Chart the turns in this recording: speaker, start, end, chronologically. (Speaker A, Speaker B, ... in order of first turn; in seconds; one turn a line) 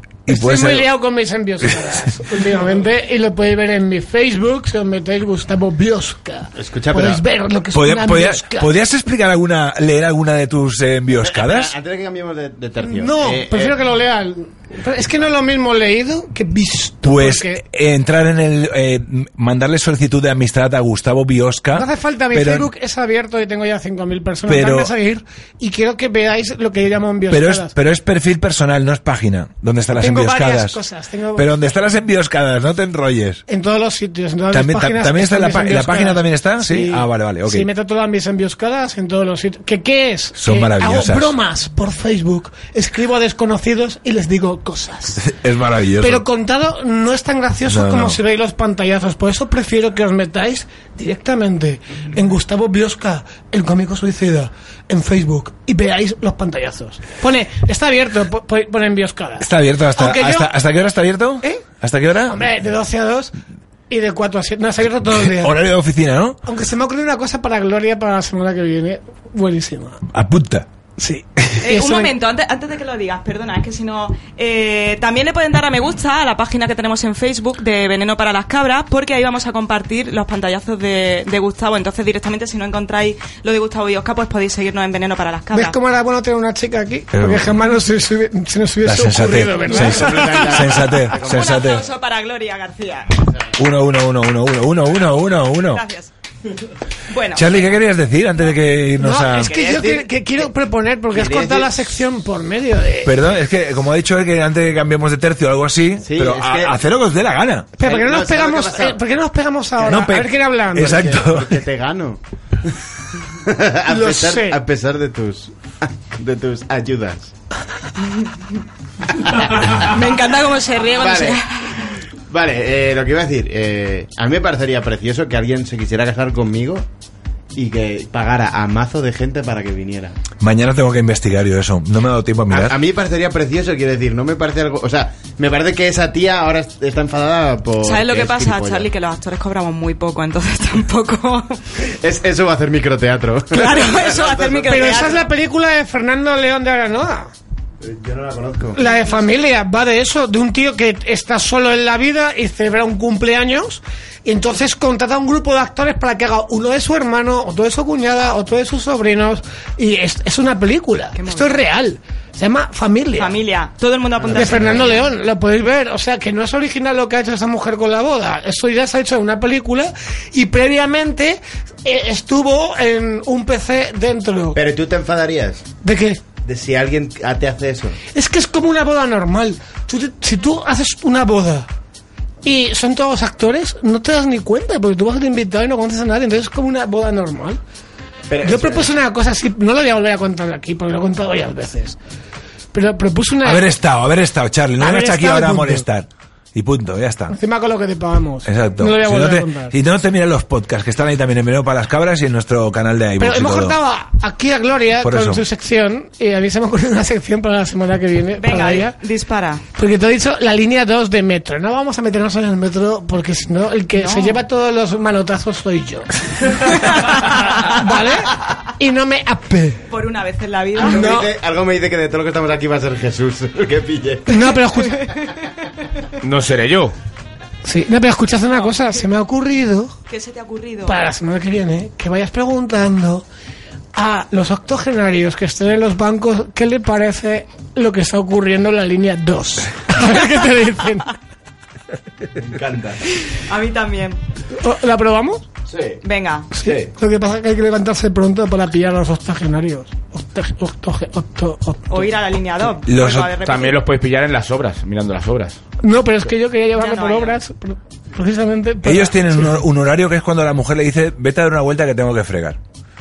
Speaker A: 0.3-0.9
Speaker B: 0.3-8.7
Speaker C: 6.6-7.2
Speaker A: 7.7-11.7
Speaker C: 11.2-13.8
Speaker B: 12.8-17.6
Speaker A: 17.0-22.7
Speaker B: 21.7-27.7
Speaker A: 24.5-24.9
Speaker A: 27.3-30.8
Speaker B: 29.9-31.5
Speaker A: 31.3-33.4
Speaker B: 33.5-45.2
Speaker A: 34.5-37.7
Speaker A: 40.4-41.3
Speaker A: 45.2-46.2
Speaker B: 46.0-60.5
Speaker A: 47.6-48.2
Speaker A: 59.4-62.4
Speaker B: 62.3-63.3
Speaker B: 63.9-65.5
Speaker A: 65.1-66.4
Speaker B: 66.4-70.0
Speaker A: 70.1-70.7
Speaker B: 71.0-72.1
Speaker D: 71.6-85.8
Speaker B: 85.5-90.7
Speaker A: 87.1-87.5
Speaker A: 88.8-91.9
Speaker C: 89.7-91.7
Speaker D: 91.2-93.2
Speaker A: 93.6-95.8
Speaker D: 95.7-96.1
Speaker D: 97.1-97.8
Speaker A: 97.3-99.5
Speaker B: 99.0-103.1
Speaker C: 99.3-100.5
Speaker C: 101.1-101.9
Speaker A: 103.0-107.7
Speaker C: 106.0-106.7
Speaker B: 107.8-111.1
Speaker C: 107.8-109.0
Speaker A: 109.8-111.6
Speaker C: 110.8-112.7
Speaker C: 113.3-117.3
Speaker B: 113.9-114.6
Speaker C: 119.3-120.0
Speaker D: 119.5-121.9
Speaker C: 121.0-126.8
Speaker C: 127.5-130.2
Speaker A: 130.4-132.8
Speaker C: 132.5-138.9
Speaker D: 137.8-141.6
Speaker C: 141.8-145.2
Speaker D: 143.5-145.2
Speaker B: 144.7-147.3
Speaker C: 147.8-148.8
Speaker B: 148.7-163.4
Speaker D: 148.8-149.2
Speaker D: 161.1-161.6
Speaker D: 163.2-165.0
Speaker C: 164.2-165.1
Speaker B: 164.3-174.6
Speaker C: 174.5-175.7
Speaker B: 175.8-176.2
Speaker C: 176.4-178.0
Speaker B: 178.1-181.7
Speaker B: 182.4-187.6
Speaker C: 188.3-188.9
Speaker B: 188.4-192.0
Speaker B: 192.7-193.7
Speaker A: 193.4-197.4
Speaker B: 194.8-195.8
Speaker B: 197.3-199.7
Speaker A: 198.4-203.8
Speaker B: 203.2-208.9
Speaker A: 205.0-205.4
Speaker D: 208.4-209.6
Speaker B: 209.8-219.8
Speaker D: 213.9-214.4
Speaker D: 216.9-217.4
Speaker D: 219.9-221.2
Speaker C: 220.8-224.8
Speaker B: 220.8-221.3
Speaker B: 224.3-225.1
Speaker E: 226.2-226.9
Speaker B: 227.6-229.9
Speaker D: 228.6-229.0
Speaker D: 230.1-231.0
Speaker B: 230.8-233.2
Speaker B: 233.9-241.1
Speaker E: 242.5-243.0
Speaker D: 243.2-244.2
Speaker B: 244.6-245.5
Speaker E: 245.7-246.0
Speaker D: 246.0-246.5
Speaker B: 246.6-252.1
Speaker E: 246.6-246.9
Speaker D: 251.9-253.8
Speaker A: 252.8-253.3
Speaker E: 253.4-255.6
Speaker B: 255.8-259.6
Speaker D: 256.8-257.4
Speaker A: 258.8-262.6